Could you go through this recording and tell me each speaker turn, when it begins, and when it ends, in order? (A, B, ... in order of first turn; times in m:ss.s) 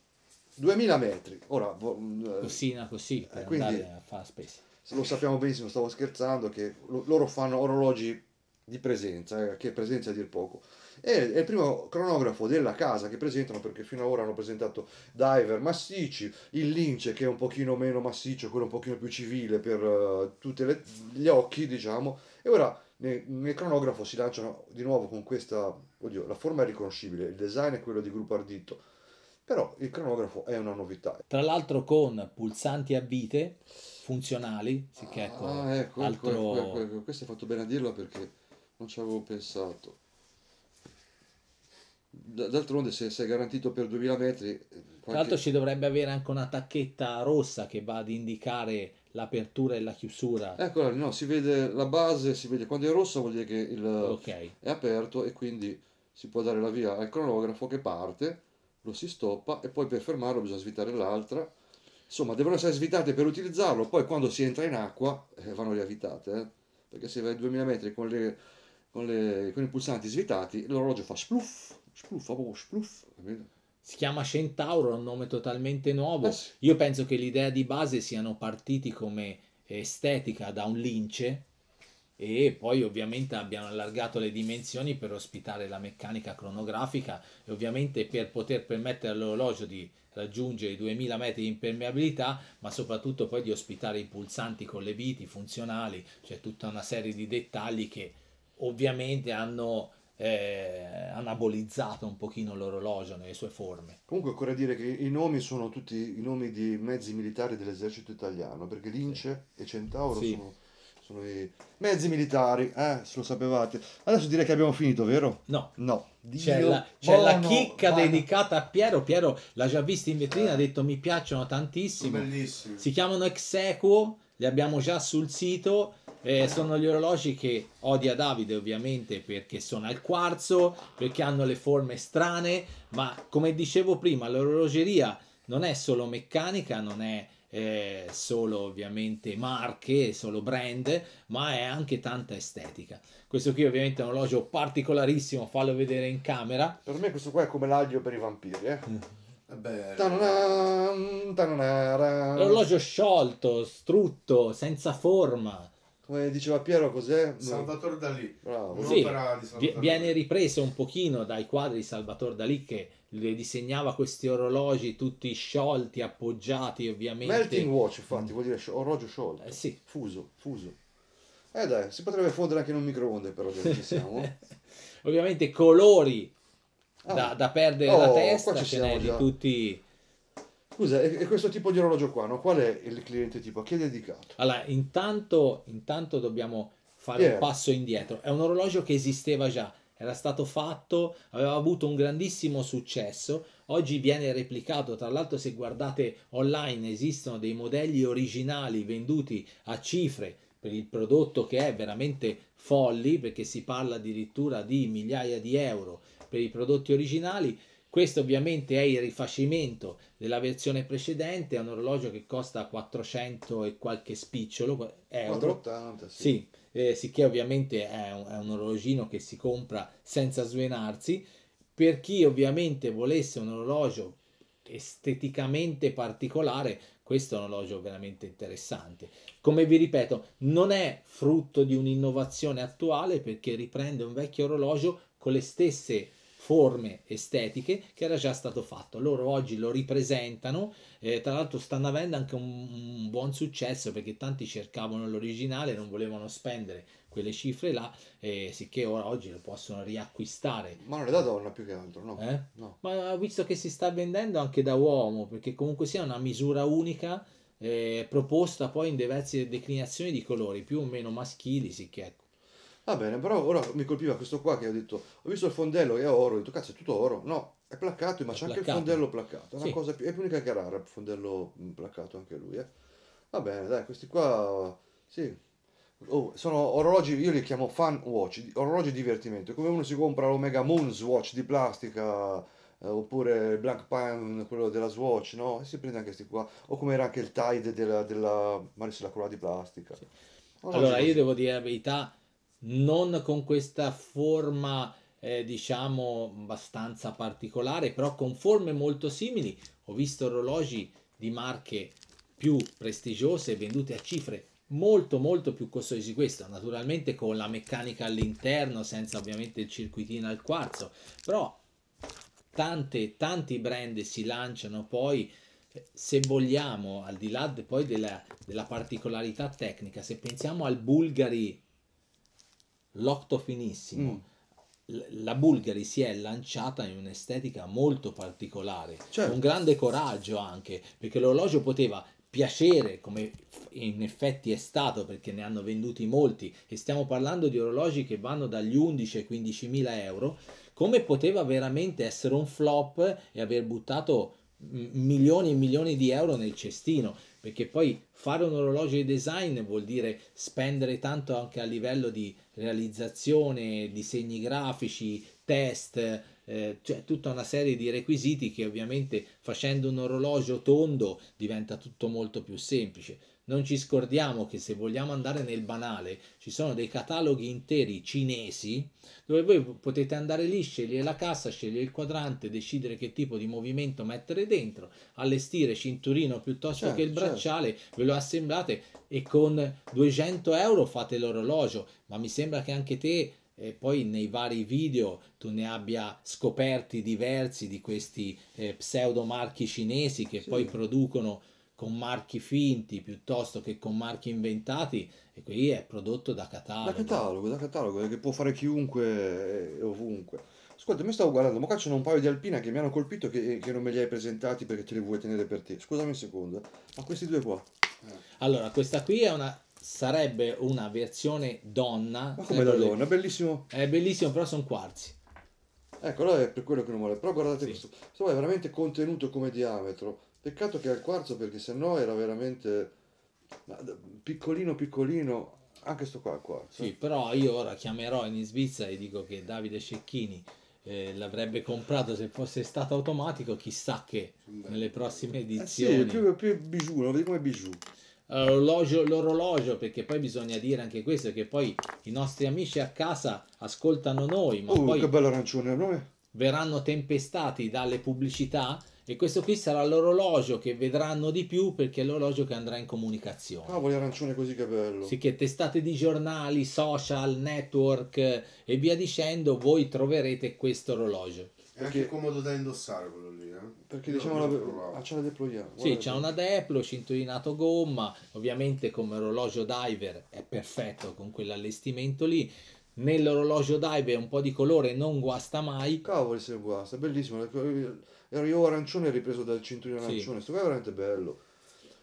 0:00.6-0:02.6 A
0:02.4-0:04.6 B
0:03.3-0:03.9 A
0:04.8-0:28.8 A
0:29.4-0:31.2 A
0:31.3-0:36.8 B
0:35.0-0:40.0 A
0:42.1-0:45.4 A
0:45.1-0:50.6 B
0:50.6-1:01.5 A
0:54.0-0:54.5 B
1:02.1-1:08.4 A
1:08.9-1:13.5 A
1:13.8-1:21.4 B
1:16.2-1:16.5 A
1:22.2-1:44.0 B
1:44.1-1:58.2 A
1:50.1-1:50.4 B
1:55.5-1:55.7 B
1:56.4-2:26.8 B
2:00.4-2:00.6 A
2:02.0-2:02.8 C
2:26.8-2:28.9 A
2:29.5-2:30.4 C
2:30.0-2:32.6 A
2:32.4-2:35.7 B
2:36.0-2:37.7 A
2:37.4-2:40.2 C
2:38.4-2:39.1 A
2:38.8-2:48.2 B
2:47.2-2:50.8 A
2:49.4-2:49.8 B
2:51.5-2:54.3 A
2:53.7-2:54.4 B
2:55.0-2:56.3 B
2:57.0-2:59.3 A
2:57.1-2:59.8 B
3:00.8-3:04.3 A
3:04.4-3:35.6 B
3:07.2-3:07.5 A
3:35.2-3:36.3 A
3:36.2-4:10.8 B
4:10.8-4:12.8 A
4:12.2-4:22.2 B
4:22.8-4:32.7 A
4:28.3-4:29.0 B
4:33.3-4:35.4 A
4:36.0-4:50.0 A
4:50.6-4:51.2 A
4:50.7-5:11.6 B
5:12.5-5:21.6 B
5:22.9-5:24.2 B
5:23.9-5:24.2 A
5:24.9-6:37.3 B
5:29.1-5:29.4 A
6:16.8-6:17.4 A
6:30.4-6:30.7 A
6:36.8-6:47.7 A
6:48.4-6:53.0 B
6:52.4-6:53.7 A
6:53.7-6:55.2 B
6:56.0-7:02.9 A
7:03.7-7:06.9 A
7:06.7-7:16.2 B
7:14.4-7:15.3 C
7:15.6-7:17.8 A
7:18.3-7:25.1 B
7:24.7-7:26.1 A
7:26.3-7:33.8 B
7:33.6-7:35.1 A
7:35.0-7:41.5 B
7:41.7-7:45.0 C
7:41.8-7:42.1 A
7:43.8-7:46.3 A
7:45.8-7:56.0 B
7:56.0-8:01.4 A
8:00.0-8:00.3 B